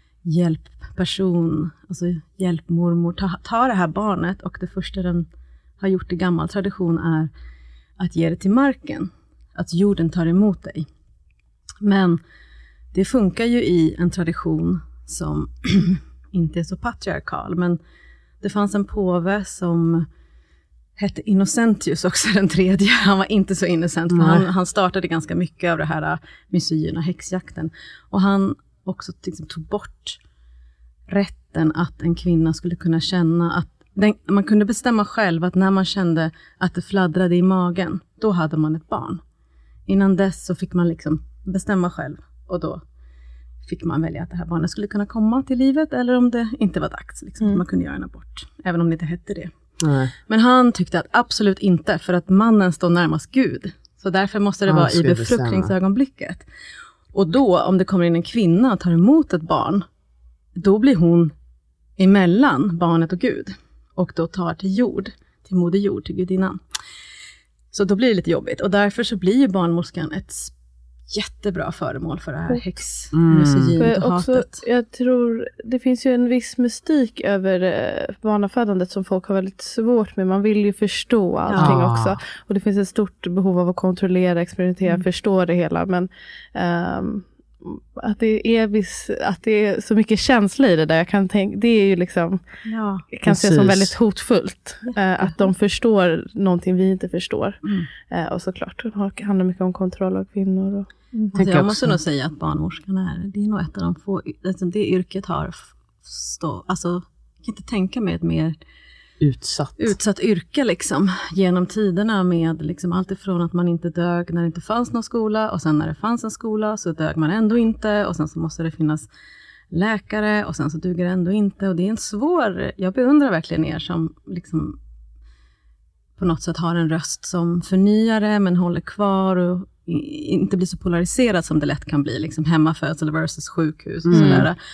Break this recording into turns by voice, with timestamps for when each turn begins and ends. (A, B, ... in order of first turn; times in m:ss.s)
0:00.2-0:05.3 A
0:05.8-0:07.3 A
0:08.0-0:10.9 A
0:11.8-0:12.2 A
0:12.9-0:17.8 A
0:18.4-0:20.1 A
0:21.0-0:30.2 A
0:24.1-0:24.5 B
0:31.1-0:39.2 A
0:39.9-0:42.8 A
0:43.6-0:49.6 A
0:49.8-0:50.1 B
0:50.3-0:56.5 A
0:54.7-0:55.7 B
0:57.1-0:59.9 A
1:00.6-1:01.3 A
1:02.0-1:06.6 A
1:07.7-1:10.5 A
1:11.1-1:14.6 A
1:13.1-1:13.8 B
1:13.8-1:32.4 C
1:21.5-1:21.8 A
1:21.6-1:22.2 B
1:32.6-1:33.1 A
1:33.1-1:41.3 C
1:33.3-1:33.9 B
1:34.8-1:35.4 A
1:37.6-1:37.9 A
1:41.3-1:48.6 A
1:41.4-1:42.0 B
1:49.2-1:50.0 B
1:49.8-1:59.1 A
1:59.7-2:04.8 A
2:06.2-2:14.6 A
2:14.1-2:14.5 B
2:14.1-2:14.5 C